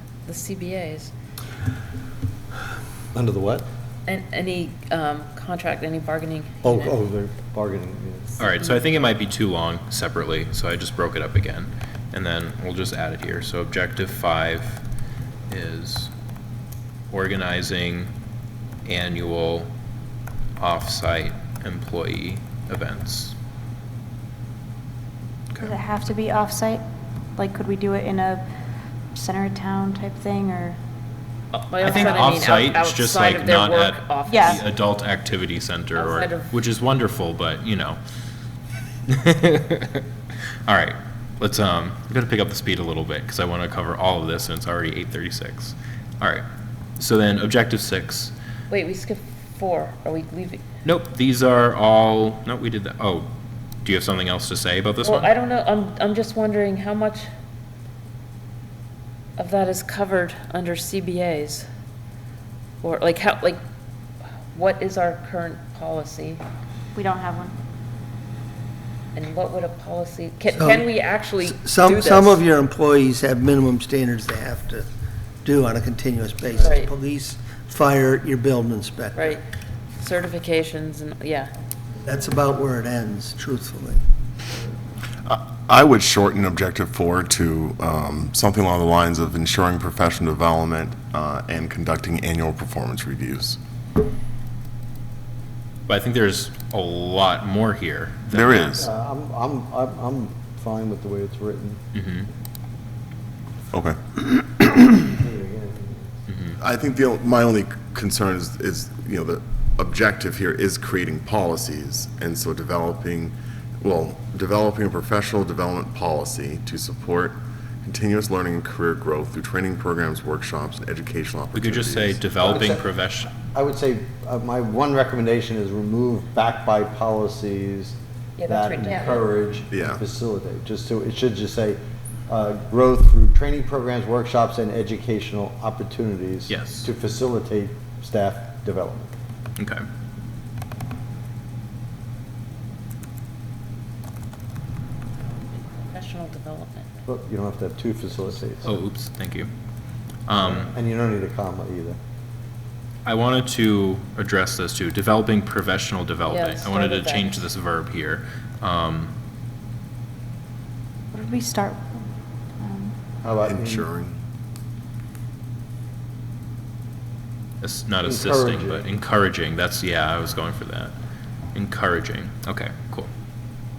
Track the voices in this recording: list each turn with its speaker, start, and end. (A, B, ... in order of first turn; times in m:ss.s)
0:00.2-0:01.1 A
0:03.1-0:03.6 B
0:04.0-0:07.0 A
0:06.6-0:08.3 B
0:08.4-0:14.8 C
0:15.5-0:16.1 C
0:17.1-0:18.1 C
0:18.8-0:19.7 C
0:20.6-0:23.3 C
0:25.5-0:26.8 D
0:27.4-0:28.4 D
0:29.1-0:30.8 D
0:31.5-0:34.6 A
0:31.8-0:38.0 C
0:34.3-0:34.6 D
0:35.9-0:36.5 A
0:39.1-0:40.0 C
0:40.7-0:46.4 C
0:47.0-0:48.3 C
0:48.7-0:50.6 A
0:50.8-0:53.3 C
0:53.8-0:55.3 C
0:55.0-0:57.3 A
0:59.4-1:01.6 A
1:02.8-1:03.6 A
1:04.5-1:06.4 A
1:06.9-1:07.5 D
1:09.1-1:12.4 A
1:10.5-1:14.9 E
1:15.4-1:19.4 E
1:16.6-1:16.9 A
1:19.1-1:19.4 A
1:20.0-1:21.5 A
1:22.0-1:24.0 E
1:25.3-1:33.6 F
1:35.9-1:38.9 C
1:38.3-1:38.8 F
1:38.8-1:41.8 B
1:41.9-1:42.3 C
1:43.7-1:45.0 F
1:45.0-1:46.1 B
1:46.3-1:46.6 C
1:46.6-2:02.3 F
2:01.5-2:03.3 C
2:02.3-2:02.8 B
2:03.4-2:08.0 B
2:08.4-2:09.2 A
2:08.5-2:11.8 B
2:09.7-2:10.0 F
2:12.3-2:19.1 B
2:16.5-2:16.9 C
2:19.6-2:19.8 C
2:25.2-2:26.9 A
2:27.0-2:28.7 B
2:28.6-2:29.5 C
2:30.3-2:30.7 C
2:30.3-2:32.0 B
2:33.0-2:39.1 C
2:36.3-2:37.4 A
2:41.1-2:42.1 D
2:42.6-2:42.9 D
2:43.2-2:43.9 B
2:43.4-2:44.2 F
2:47.6-2:50.9 C
2:48.0-2:48.9 B
2:51.5-2:53.1 C